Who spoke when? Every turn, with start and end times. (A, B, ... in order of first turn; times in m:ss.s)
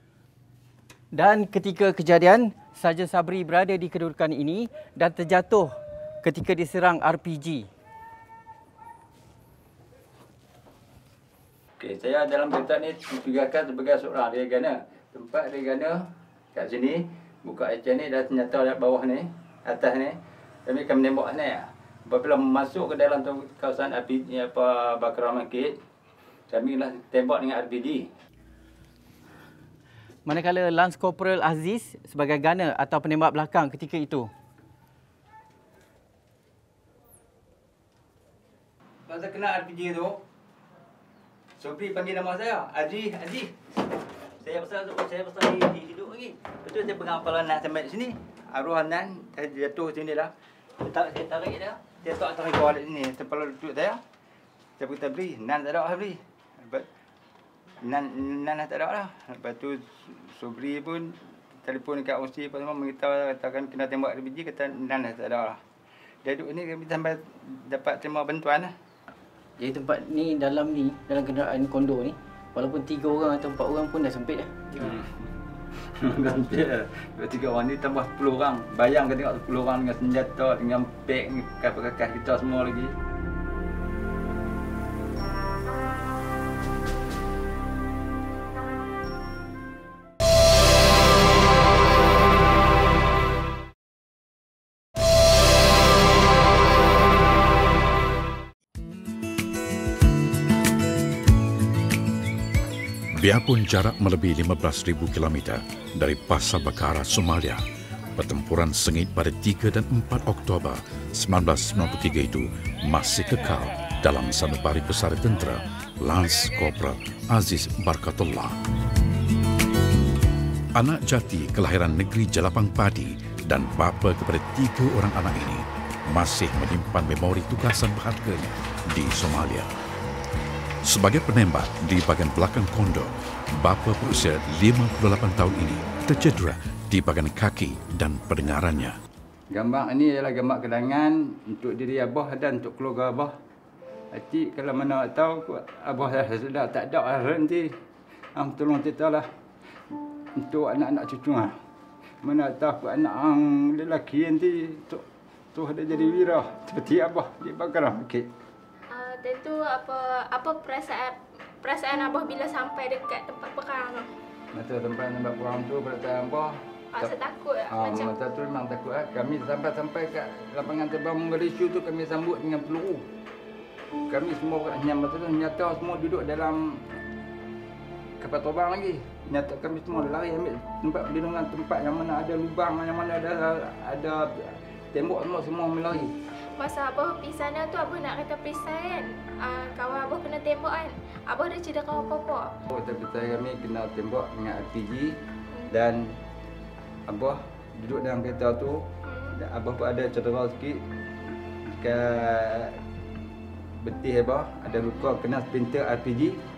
0:01.1-0:07.7 A
0:11.8-0:16.0 B
0:16.5-0:25.8 B
0:26.5-0:28.1 B
0:30.3-0:34.3 A
0:39.1-0:40.2 B
0:41.6-0:43.5 B
0:44.4-0:54.0 B
0:54.8-0:56.9 B
0:57.8-1:05.6 B
1:06.2-1:08.7 B
1:09.6-1:14.5 A
1:14.8-1:15.1 B
1:16.0-1:22.9 B
1:43.1-1:47.6 C
1:48.2-1:58.6 C
2:00.8-2:09.7 C
2:10.8-2:19.0 C
2:19.5-2:23.3 B
2:24.1-2:27.7 B
2:28.4-2:29.3 B
2:30.4-2:31.5 B
2:32.2-2:38.3 B
2:38.9-2:44.1 D
2:44.5-2:47.1 B
2:46.9-2:48.3 D
2:47.7-2:53.0 B
2:54.1-2:56.8 B
2:58.2-3:04.3 B
3:04.9-3:06.1 B
3:06.6-3:12.5 D
3:12.7-3:15.1 B
3:15.7-3:16.0 B
3:17.1-3:18.8 B
3:19.1-3:19.3 D
3:19.4-3:20.8 B
3:21.8-3:22.7 B
3:23.8-3:26.4 B
3:24.8-3:25.1 D